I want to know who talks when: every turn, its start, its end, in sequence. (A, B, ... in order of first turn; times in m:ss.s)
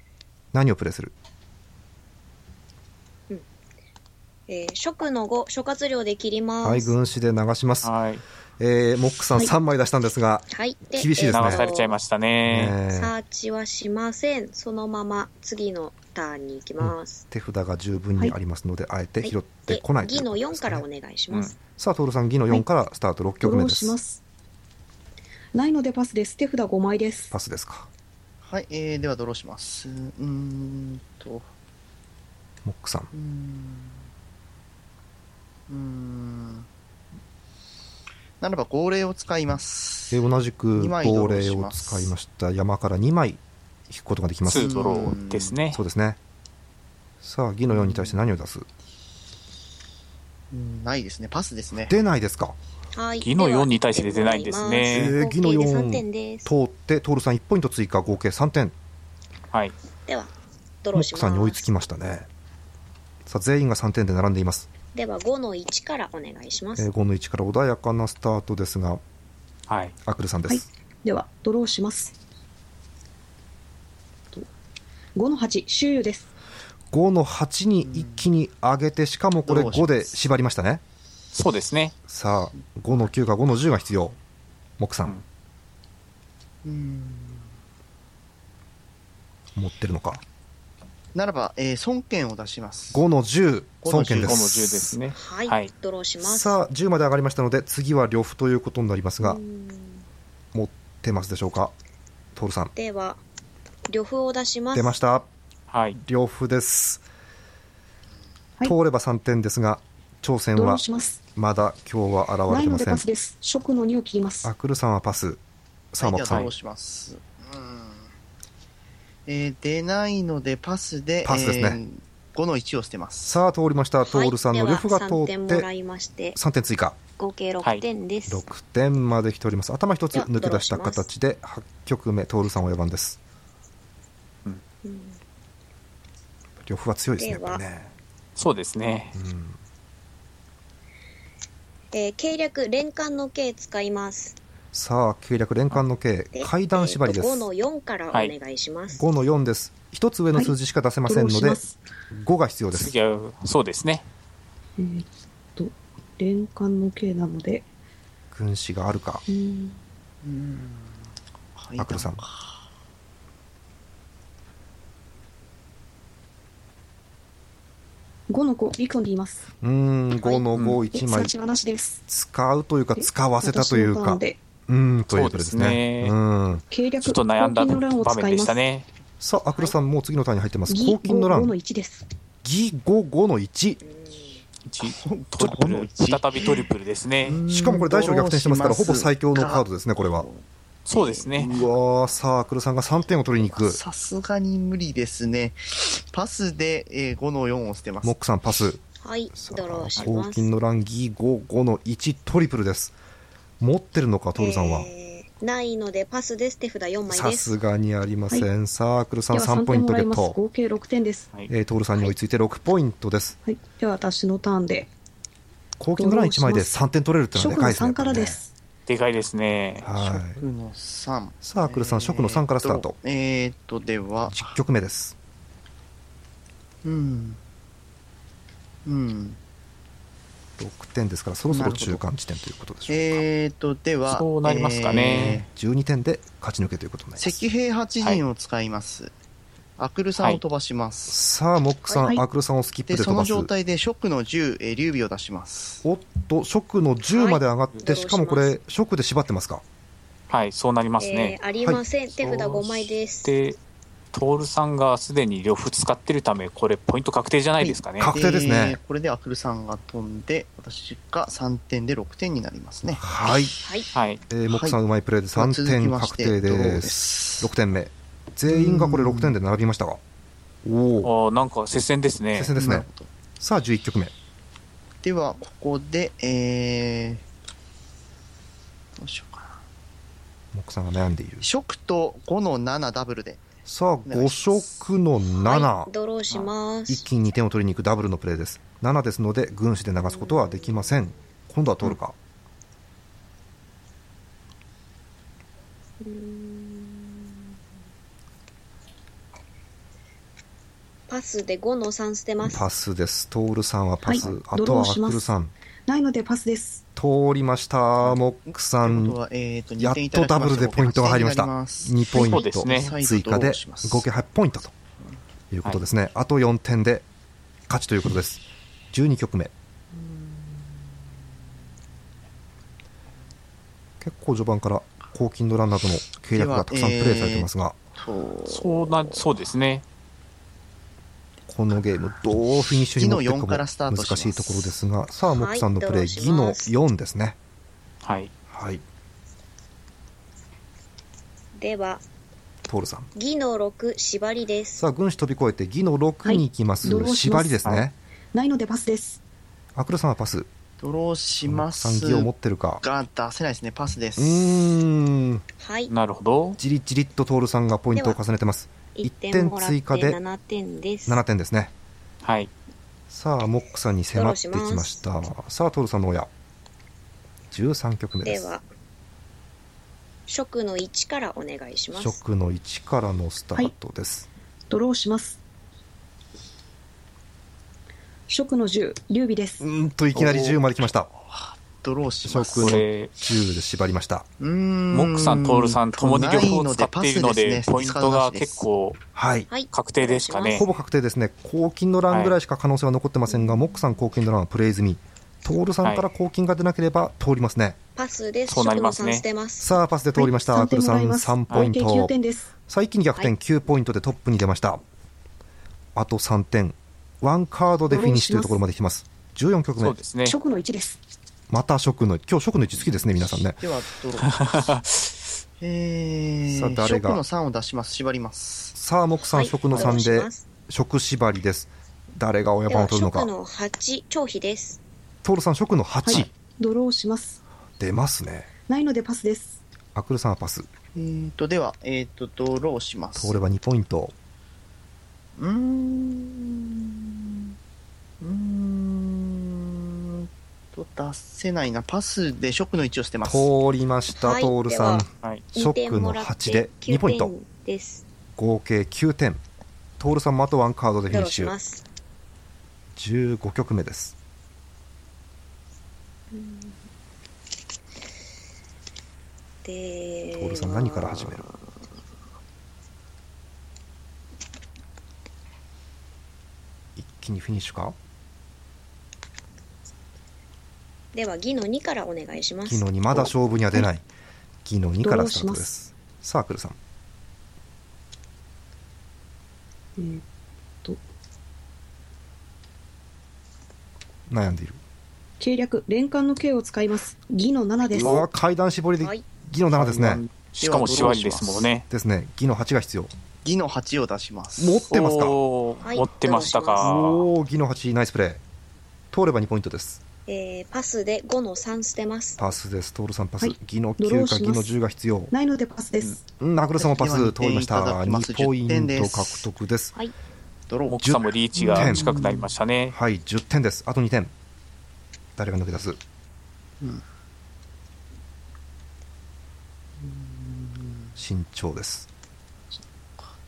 0:00.5-0:01.1 A
0:04.5-0:06.9 B
0:06.6-0:07.9 A
0:07.8-0:08.2 C
0:08.6-0:11.7 A
0:10.5-0:12.0 B
0:11.3-0:12.8 C
0:12.4-0:13.1 A
0:12.9-0:17.2 B
0:16.8-0:20.8 A
0:19.2-0:21.6 B
0:21.8-0:24.0 A
0:23.4-0:24.2 D
0:25.5-0:27.3 D
0:27.3-0:27.9 A
0:28.4-0:31.4 E
0:32.6-0:33.1 A
0:33.1-0:34.0 E
0:35.7-0:36.7 E
0:38.4-0:42.1 E
0:40.1-0:44.7 A
0:44.4-0:45.8 C
0:44.5-0:45.6 E
0:45.7-0:46.2 A
0:47.2-0:48.7 A
0:47.7-0:48.2 E
0:50.5-0:51.9 E
0:51.9-0:52.6 A
0:52.9-0:56.5 B
0:53.2-0:55.1 C
0:54.9-0:58.7 A
1:00.1-1:00.3 B
1:00.8-1:01.7 B
1:00.9-1:02.3 A
1:03.2-1:04.7 A
1:04.9-1:06.9 B
1:06.8-1:09.0 A
1:09.7-1:09.9 C
1:10.0-1:10.7 A
1:10.5-1:12.1 D
1:15.2-1:16.3 D
1:16.9-1:20.8 A
1:17.8-1:18.3 E
1:19.4-1:20.2 E
1:21.3-1:21.9 C
1:22.1-1:24.2 A
1:24.8-1:25.2 A
1:26.6-1:27.5 E
1:29.5-1:30.2 A
1:31.1-1:33.0 E
1:32.9-1:35.0 A
1:33.8-1:34.4 E
1:34.2-1:35.7 C
1:35.1-1:36.6 B
1:36.2-1:39.4 A
1:39.2-1:40.0 B
1:40.5-1:41.7 A
1:42.3-1:42.7 A
1:42.7-1:43.2 B
1:43.9-1:45.0 B
1:44.7-1:45.3 A
1:45.7-1:46.0 C
1:45.9-1:47.0 A
1:48.6-1:50.8 A
1:50.5-1:51.2 D
1:51.4-1:53.0 A
1:52.5-1:54.5 D
1:54.4-1:55.4 A
1:55.9-1:56.5 A
1:56.0-1:58.1 E
1:59.3-2:03.4 E
2:01.2-2:01.8 A
2:03.2-2:05.7 A
2:04.0-2:06.4 B
2:06.3-2:07.0 A
2:07.2-2:08.5 B
2:08.3-2:13.2 A
2:10.1-2:11.1 B
2:14.8-2:15.2 B
2:16.6-2:17.9 A
2:17.2-2:17.6 B
2:18.4-2:19.1 C
2:19.1-2:19.6 A
2:21.9-2:24.4 B
2:24.7-2:27.5 A
2:26.3-2:29.0 B
2:28.9-2:32.9 A
2:31.0-2:31.8 D
2:32.7-2:34.0 C
2:34.8-2:37.6 D
2:38.3-2:39.2 A
2:39.3-2:39.8 D
2:40.2-2:42.6 E
2:41.8-2:42.2 A
2:48.3-2:49.5 D
2:49.6-2:51.3 A
2:50.9-2:52.0 D
2:52.1-2:56.6 A
2:53.0-2:54.4 D
2:55.1-2:56.1 C
2:56.7-2:58.6 D
2:57.0-2:58.8 C
2:59.2-3:01.5 A
3:00.7-3:02.1 D
3:02.4-3:03.8 A
3:03.8-3:04.4 B
3:04.7-3:07.4 C
3:04.8-3:06.7 E
3:07.2-3:11.7 E
3:07.5-3:10.3 A
3:10.8-3:11.5 C
3:11.4-3:13.8 A
3:13.3-3:18.2 E
3:18.0-3:18.8 A
3:19.0-3:20.5 B
3:19.4-3:22.9 A
3:23.6-3:24.9 A
3:24.4-3:27.5 B
3:27.1-3:30.4 A
3:29.3-3:31.3 D
3:31.5-3:33.4 A
3:33.4-3:34.9 D
3:35.8-3:38.4 A
3:36.0-3:36.7 D
3:37.3-3:38.5 D
3:38.9-3:39.9 C
3:39.8-3:40.4 A
3:39.9-3:44.5 E
3:41.4-3:42.9 A
3:44.3-3:45.1 A
3:46.8-3:47.4 E
3:48.8-3:49.4 E
3:50.6-3:53.2 A
3:51.5-3:52.0 E
3:52.9-3:55.5 E
3:54.1-3:55.4 C
3:55.5-3:57.4 A
3:57.2-3:59.1 E
3:59.8-4:01.2 E
4:01.1-4:03.5 A
4:02.0-4:02.2 D
4:02.9-4:05.8 E
4:05.8-4:09.6 A
4:07.1-4:08.6 B
4:10.3-4:11.4 C
4:11.0-4:13.4 B
4:12.2-4:13.6 C
4:14.1-4:18.1 C
4:17.6-4:23.0 E
4:18.0-4:18.8 A
4:23.0-4:23.6 A
4:23.6-4:23.9 B
4:23.9-4:24.2 C
4:24.3-4:30.0 A
4:24.5-4:24.8 E
4:25.3-4:27.5 E
4:28.5-4:29.4 E
4:30.6-4:31.1 A
4:31.0-4:32.5 C
4:32.3-4:32.9 A
4:32.5-4:33.1 E
4:33.4-4:34.1 A
4:35.0-4:37.2 E
4:39.0-4:39.6 E
4:40.5-4:41.5 A
4:41.4-4:43.5 E
4:43.6-4:45.9 A
4:44.0-4:44.9 E
4:45.3-4:47.0 B
4:46.9-4:52.2 A
4:50.1-4:50.9 B
4:56.0-4:57.2 B
5:01.1-5:02.6 B
5:02.4-5:05.5 A
5:04.0-5:05.3 D
5:05.9-5:06.8 D
5:07.0-5:09.2 A
5:08.0-5:14.0 E
5:09.8-5:14.7 A
5:12.1-5:12.9 C
5:15.5-5:17.0 A
5:17.7-5:19.5 A
5:19.9-5:20.8 E
5:24.0-5:27.8 A
5:26.3-5:29.3 E
5:28.5-5:29.8 C
5:31.5-5:37.4 A
5:32.8-5:34.7 E
5:35.2-5:36.7 B
5:38.0-5:38.3 C
5:38.5-5:38.8 A
5:41.6-5:42.0 B
5:42.6-5:43.1 A
5:43.1-5:44.8 B
5:44.8-5:47.9 A
5:46.2-5:47.6 D
5:48.3-5:49.2 D
5:49.7-5:50.5 A
5:50.8-5:52.3 E
5:51.4-5:52.8 A
5:52.8-5:54.7 E
5:54.2-5:55.4 A
5:55.6-5:55.9 B
5:55.9-5:56.6 C
5:56.6-6:00.2 A
5:57.9-5:58.2 B
5:59.0-6:01.2 B
6:01.1-6:01.7 A
6:02.2-6:02.5 C
6:03.1-6:06.3 A
6:04.1-6:05.1 B
6:07.5-6:08.5 A
6:08.2-6:08.6 B
6:10.3-6:12.2 B
6:11.9-6:14.3 A
6:14.7-6:15.4 D
6:18.3-6:19.6 D
6:19.6-6:21.1 A
6:20.2-6:20.5 C
6:21.1-6:22.8 E
6:22.2-6:24.3 A
6:22.6-6:23.1 C
6:24.4-6:28.7 E
6:24.9-6:29.0 C
6:29.1-6:29.5 A
6:29.5-6:30.7 B
6:29.7-6:30.7 C
6:30.5-6:37.8 A
6:32.1-6:32.4 C
6:38.0-6:39.7 B
6:38.5-6:39.2 C
6:39.6-6:42.1 A
6:40.1-6:42.5 D
6:42.7-6:44.8 A
6:45.9-6:50.0 A
6:47.9-6:48.6 D
6:49.8-6:50.4 C
6:50.2-6:51.0 D
6:51.5-6:53.7 A
6:53.6-6:54.8 E
6:54.2-6:55.2 C
6:55.6-6:58.7 E
6:56.5-6:57.2 A
6:58.7-7:03.3 A
6:59.3-7:00.4 B
7:02.7-7:04.8 B
7:05.2-7:06.3 A
7:06.0-7:07.4 D
7:07.8-7:08.5 A
7:08.7-7:09.6 D
7:09.9-7:10.7 A
7:10.9-7:13.4 E
7:13.2-7:14.1 A
7:15.4-7:17.5 E
7:18.2-7:23.5 E
7:23.2-7:27.3 A
7:24.1-7:28.0 B
7:28.4-7:29.4 A
7:30.0-7:31.5 A
7:31.1-7:31.8 B
7:32.9-7:34.1 A
7:36.3-7:36.7 B
7:39.6-7:41.5 B
7:40.3-7:41.4 A
7:47.0-7:48.0 A
7:51.1-7:53.3 B
7:52.6-7:54.0 A
7:54.6-7:56.8 A
7:55.0-7:55.7 D
8:00.0-8:00.2 D
8:04.3-8:04.8 A
8:05.4-8:08.2 D
8:07.9-8:10.2 A
8:09.0-8:09.2 B
8:09.7-8:11.8 C
8:10.6-8:11.8 E
8:11.9-8:13.1 A
8:13.4-8:14.8 E
8:14.6-8:15.4 A
8:14.9-8:17.2 C
8:15.8-8:16.9 B
8:16.8-8:18.4 A
8:19.1-8:20.0 A
8:20.2-8:22.4 B
8:22.4-8:25.3 A
8:23.4-8:24.7 D
8:25.3-8:26.2 D
8:26.4-8:30.0 A
8:26.8-8:29.5 E
8:30.7-8:32.5 E
8:30.9-8:33.0 C
8:31.0-8:32.1 A
8:32.9-8:34.3 A
8:35.4-8:36.0 A
8:40.0-8:41.1 E
8:41.2-8:42.1 A